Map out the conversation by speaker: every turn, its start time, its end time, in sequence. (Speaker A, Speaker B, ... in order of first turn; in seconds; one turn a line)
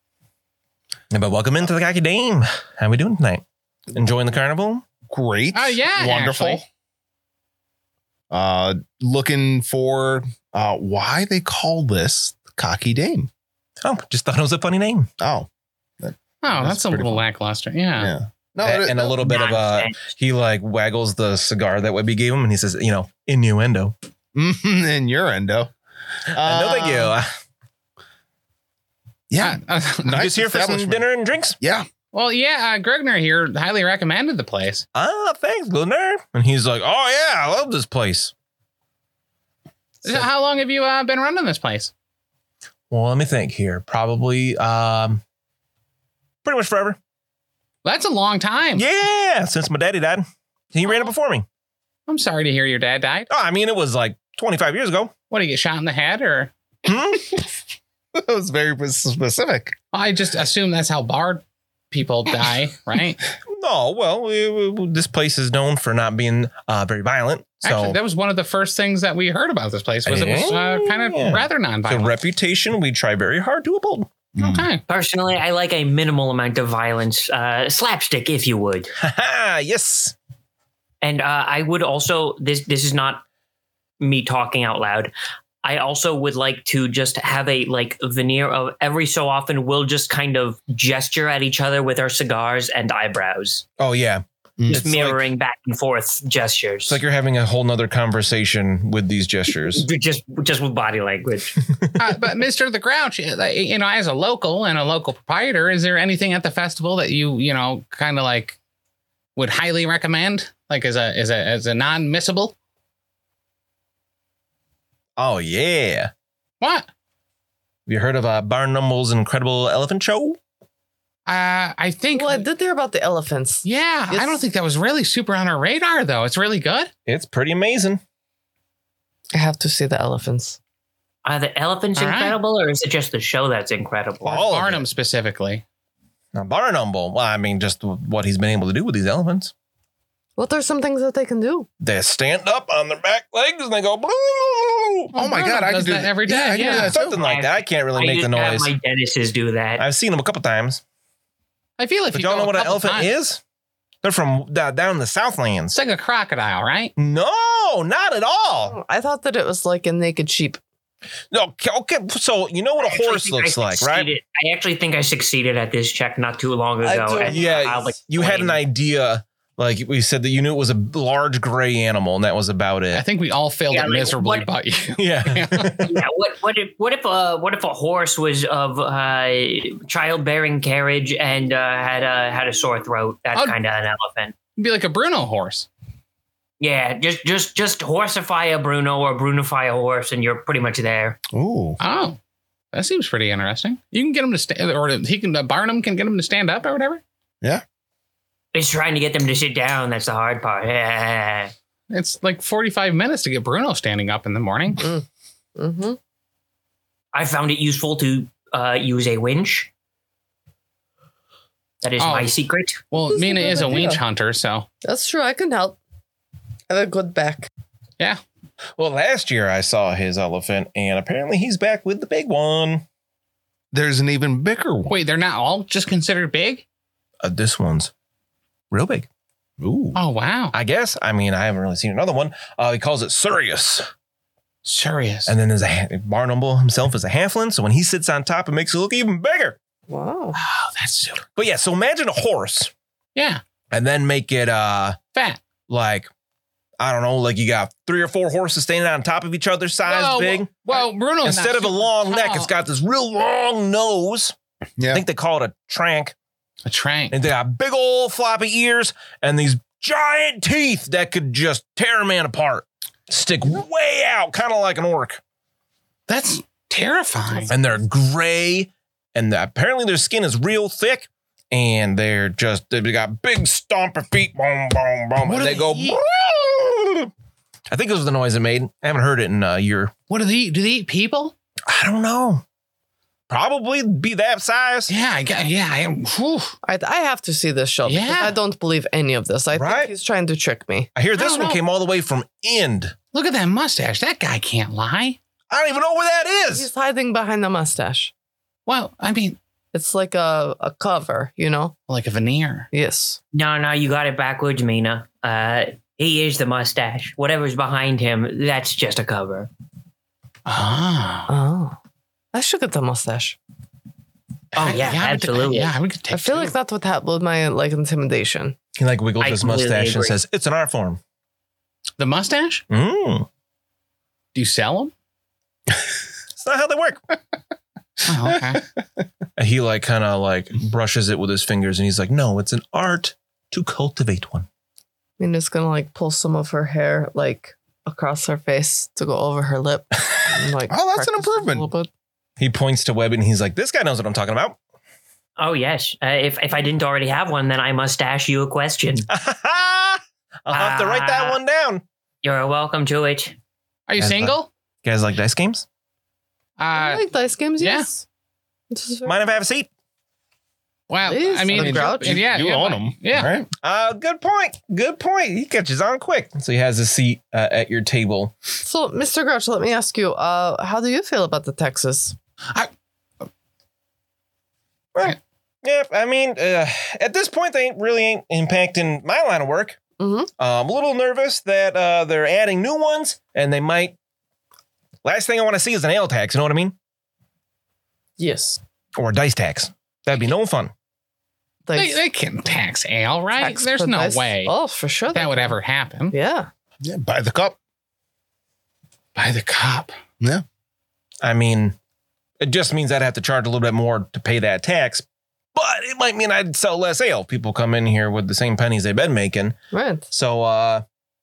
Speaker A: 1.1-4.8
Speaker B: 5.1-6.6
Speaker C: 5.5-6.6
Speaker B: 8.3-13.3
Speaker A: 13.8-15.1
Speaker B: 15.2-15.5
Speaker B: 16.0-17.2
Speaker C: 16.4-18.1
Speaker B: 18.0-19.2
Speaker A: 18.6-23.9
Speaker D: 19.1-20.1
Speaker B: 24.3-25.7
Speaker B: 26.3-27.1
Speaker A: 26.3-27.3
Speaker B: 29.3-31.1
Speaker C: 29.4-30.2
Speaker A: 30.1-31.6
Speaker B: 31.6-31.9
Speaker C: 32.1-34.9
Speaker A: 34.9-38.3
Speaker C: 40.0-41.9
Speaker A: 42.9-45.2
Speaker A: 46.4-47.0
Speaker C: 47.8-48.8
Speaker A: 48.8-51.5
Speaker C: 52.1-53.3
Speaker A: 53.3-55.1
Speaker C: 55.3-56.5
Speaker A: 56.9-57.4
Speaker B: 58.1-59.8
Speaker C: 59.9-63.2
Speaker A: 63.5-68.0
Speaker C: 67.6-72.1
Speaker A: 70.0-74.1
Speaker B: 74.3-74.7
Speaker C: 74.4-74.8
Speaker D: 74.9-78.9
Speaker A: 79.0-80.1
Speaker D: 81.0-83.2
Speaker D: 84.0-85.1
Speaker D: 85.6-93.6
Speaker A: 93.8-95.2
Speaker B: 94.6-94.8
Speaker D: 94.7-97.0
Speaker A: 96.9-99.8
Speaker D: 99.8-101.6
Speaker C: 102.0-108.6
Speaker C: 109.3-112.5
Speaker A: 115.2-116.1
Speaker C: 116.6-116.9
Speaker A: 117.9-120.4
Speaker C: 121.3-122.5
Speaker E: 122.2-124.4
Speaker C: 123.6-126.9
Speaker A: 127.1-128.0
Speaker E: 129.3-130.6
Speaker D: 131.2-134.4
Speaker C: 132.0-132.4
Speaker A: 134.2-134.8
Speaker C: 134.3-135.6
Speaker A: 136.3-139.5
Speaker E: 140.4-141.7
Speaker A: 141.8-145.1
Speaker C: 145.1-146.9
Speaker B: 145.1-147.2
Speaker A: 146.6-148.7
Speaker D: 147.1-149.8
Speaker A: 149.8-150.8
Speaker C: 151.8-153.1
Speaker A: 152.1-153.4
Speaker A: 154.0-155.8
Speaker C: 155.7-156.9
Speaker A: 157.0-158.8
Speaker E: 158.7-160.6
Speaker A: 161.3-164.1
Speaker D: 162.8-168.6
Speaker E: 166.8-167.5
Speaker A: 167.2-173.0
Speaker C: 172.9-175.8
Speaker D: 173.7-174.5
Speaker A: 175.0-176.0
Speaker D: 175.8-184.3
Speaker C: 184.6-185.7
Speaker D: 186.6-191.2
Speaker B: 191.3-191.8
Speaker C: 191.8-192.2
Speaker C: 192.7-197.0
Speaker D: 198.5-201.5
Speaker C: 201.9-204.8
Speaker E: 204.8-206.0
Speaker D: 207.1-209.7
Speaker D: 211.8-212.8
Speaker C: 212.0-212.3
Speaker C: 212.9-214.7
Speaker E: 213.1-214.0
Speaker E: 214.8-215.8
Speaker E: 216.7-217.5
Speaker A: 218.8-222.8
Speaker B: 223.7-225.0
Speaker C: 224.9-226.6
Speaker A: 227.2-227.9
Speaker A: 228.7-229.1
Speaker B: 229.6-230.0
Speaker C: 229.9-230.5
Speaker A: 230.5-233.9
Speaker C: 234.6-235.3
Speaker A: 235.3-239.6
Speaker E: 239.9-240.4
Speaker C: 240.3-241.2
Speaker A: 241.3-242.7
Speaker C: 243.1-243.4
Speaker A: 243.7-245.0
Speaker C: 245.1-245.4
Speaker A: 245.7-246.1
Speaker A: 246.8-254.3
Speaker C: 249.8-252.5
Speaker B: 254.8-255.0
Speaker A: 254.9-256.1
Speaker C: 256.6-257.1
Speaker A: 257.1-265.2
Speaker C: 266.1-267.5
Speaker A: 267.5-277.1
Speaker C: 275.2-276.0
Speaker A: 277.7-279.9
Speaker C: 280.1-281.3
Speaker A: 281.7-282.4
Speaker A: 283.3-284.9
Speaker C: 284.9-286.6
Speaker E: 286.6-290.9
Speaker C: 287.9-288.3
Speaker A: 289.5-289.9
Speaker A: 290.9-292.9
Speaker C: 291.1-291.6
Speaker C: 293.1-295.2
Speaker A: 295.5-296.7
Speaker E: 296.5-298.1
Speaker C: 298.6-299.4
Speaker E: 299.7-301.7
Speaker C: 301.9-302.7
Speaker E: 302.7-303.2
Speaker D: 303.3-309.5
Speaker C: 310.5-311.3
Speaker E: 311.3-311.8
Speaker E: 312.3-313.4
Speaker C: 314.5-316.5
Speaker D: 314.5-315.7
Speaker E: 316.1-318.6
Speaker A: 318.8-321.0
Speaker D: 319.2-320.1
Speaker C: 322.0-322.6
Speaker A: 322.7-323.3
Speaker C: 324.3-324.9
Speaker A: 326.4-327.0
Speaker C: 328.0-328.6
Speaker A: 329.4-334.5
Speaker E: 335.2-341.9
Speaker B: 340.7-341.7
Speaker A: 342.4-344.6
Speaker D: 345.4-349.1
Speaker A: 349.1-351.8
Speaker D: 350.5-351.4
Speaker D: 352.2-353.4
Speaker C: 353.9-354.5
Speaker A: 354.0-355.6
Speaker C: 356.6-357.0
Speaker E: 356.7-358.0
Speaker C: 357.6-357.9
Speaker E: 358.7-359.3
Speaker A: 359.0-359.7
Speaker C: 360.9-363.3
Speaker E: 361.0-362.2
Speaker B: 361.5-363.5
Speaker A: 363.6-368.3
Speaker E: 368.6-372.1
Speaker A: 374.9-379.8
Speaker E: 380.0-380.3
Speaker A: 380.4-384.0
Speaker A: 385.0-386.8
Speaker E: 388.2-388.6
Speaker A: 389.0-390.7
Speaker E: 391.7-392.0
Speaker C: 391.8-394.5
Speaker E: 393.4-395.5
Speaker C: 395.1-396.1
Speaker E: 396.1-396.5
Speaker B: 396.8-397.6
Speaker C: 399.1-399.9
Speaker A: 401.2-401.8
Speaker A: 402.4-409.6
Speaker E: 409.7-410.1
Speaker A: 410.1-410.8